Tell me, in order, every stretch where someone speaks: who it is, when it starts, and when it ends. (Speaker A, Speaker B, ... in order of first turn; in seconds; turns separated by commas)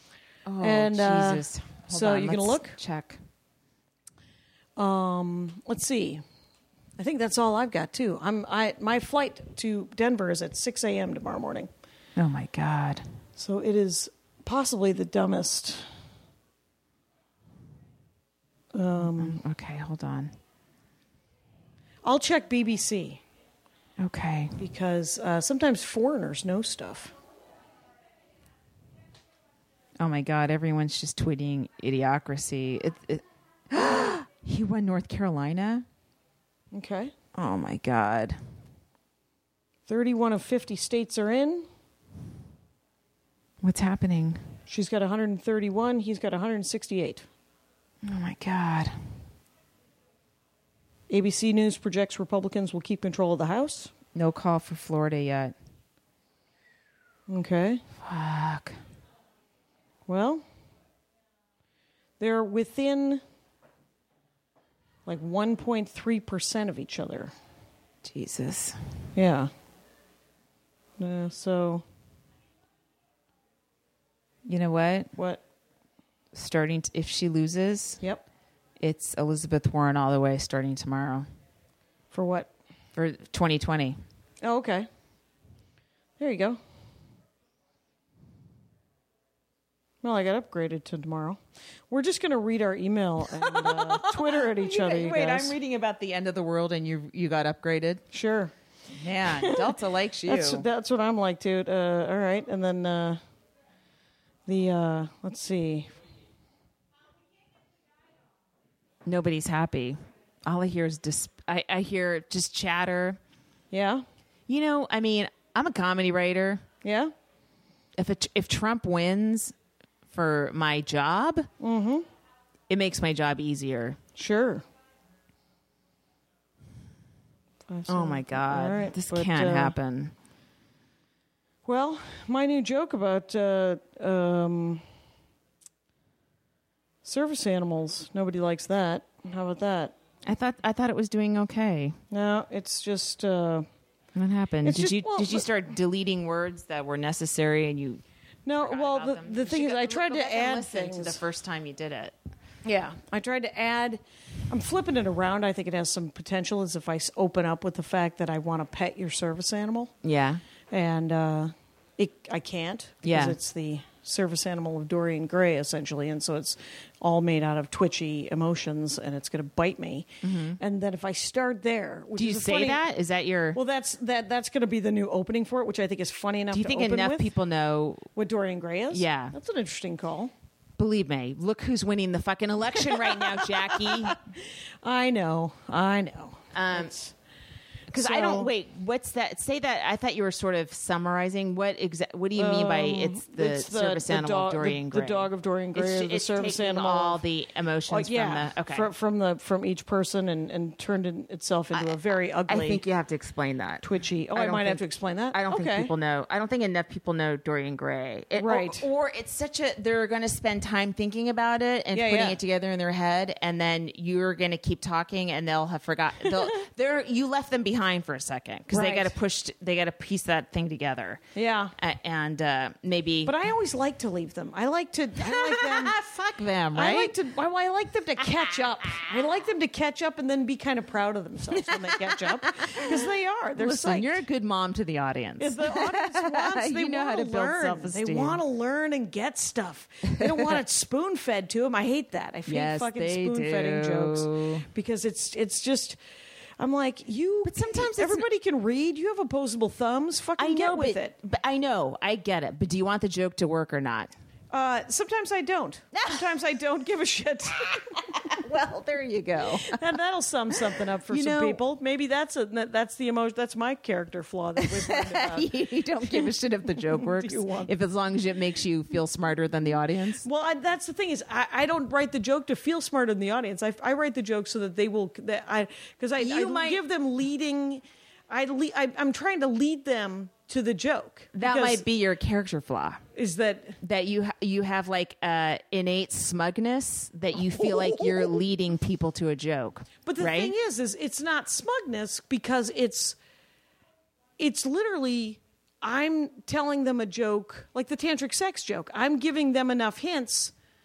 Speaker A: 0.5-3.2, Speaker B: 0.6-2.8, Speaker B: 4.8-6.2, Speaker B: 7.0-11.7, Speaker A: 12.2-13.0, Speaker B: 13.4-15.9, Speaker B: 18.7-19.4, Speaker A: 19.0-20.3, Speaker B: 22.0-23.2, Speaker A: 24.0-24.6, Speaker B: 24.6-27.1, Speaker A: 30.0-35.9, Speaker B: 36.7-37.1, Speaker A: 37.3-38.4, Speaker B: 39.9-41.7, Speaker A: 43.6-44.4, Speaker B: 44.7-47.2, Speaker A: 48.0-48.9, Speaker B: 51.1-53.9, Speaker A: 54.1-55.5, Speaker B: 57.3-57.8, Speaker A: 58.0-58.8, Speaker B: 60.1-60.4, Speaker B: 62.2-63.2, Speaker B: 65.0-67.3, Speaker A: 68.0-68.8, Speaker B: 69.1-69.5, Speaker B: 71.0-71.8, Speaker A: 74.5-75.1, Speaker B: 75.2-75.4, Speaker A: 76.3-78.0, Speaker A: 78.8-81.2, Speaker B: 82.1-82.5, Speaker A: 83.0-84.0, Speaker B: 84.4-84.9, Speaker B: 86.2-86.6, Speaker B: 90.0-95.5, Speaker A: 93.3-98.0, Speaker B: 98.1-98.5, Speaker A: 98.9-100.7, Speaker B: 99.2-103.2, Speaker B: 104.5-105.9, Speaker A: 109.0-113.2, Speaker B: 113.7-114.0, Speaker A: 114.5-116.6, Speaker B: 116.8-117.1, Speaker A: 118.0-119.5, Speaker A: 120.1-121.5, Speaker B: 121.6-122.0, Speaker A: 122.7-124.0, Speaker B: 124.2-124.6, Speaker B: 127.7-129.7, Speaker A: 127.9-130.1, Speaker B: 131.6-134.8, Speaker B: 137.0-139.9, Speaker A: 140.2-142.0, Speaker B: 142.1-143.7, Speaker A: 144.1-148.0, Speaker B: 144.6-145.5, Speaker B: 148.4-151.2, Speaker A: 148.6-152.1, Speaker B: 152.6-159.9, Speaker A: 160.0-160.4, Speaker B: 160.7-170.1, Speaker A: 163.0-163.4, Speaker A: 170.2-170.6, Speaker B: 170.6-172.8, Speaker A: 172.2-173.6, Speaker B: 173.5-177.3, Speaker A: 176.5-178.1, Speaker B: 178.1-180.3, Speaker A: 178.9-179.3, Speaker A: 180.8-184.2, Speaker B: 182.8-187.1, Speaker A: 186.5-186.9, Speaker A: 187.9-198.9, Speaker B: 187.9-188.5, Speaker B: 192.3-197.2, Speaker B: 197.9-202.8, Speaker A: 202.5-221.2, Speaker B: 203.8-205.9, Speaker B: 208.4-208.8, Speaker B: 211.9-212.4, Speaker B: 218.7-219.1, Speaker B: 221.3-221.7, Speaker A: 221.8-223.3, Speaker B: 223.2-225.9, Speaker A: 225.2-227.2, Speaker B: 226.7-234.2, Speaker A: 231.5-238.4, Speaker B: 235.4-246.0, Speaker A: 240.2-240.6, Speaker A: 242.5-244.7, Speaker B: 246.6-251.1, Speaker A: 247.4-248.2, Speaker A: 250.4-254.1, Speaker B: 254.5-258.3, Speaker A: 255.9-256.2, Speaker A: 258.1-259.8, Speaker B: 259.6-265.5, Speaker A: 261.1-261.6, Speaker A: 264.6-270.2, Speaker B: 266.1-267.7, Speaker B: 270.2-281.8, Speaker A: 276.2-276.8, Speaker A: 281.3-283.0, Speaker B: 283.1-283.8, Speaker A: 283.8-290.5, Speaker B: 290.0-293.2, Speaker B: 294.4-300.5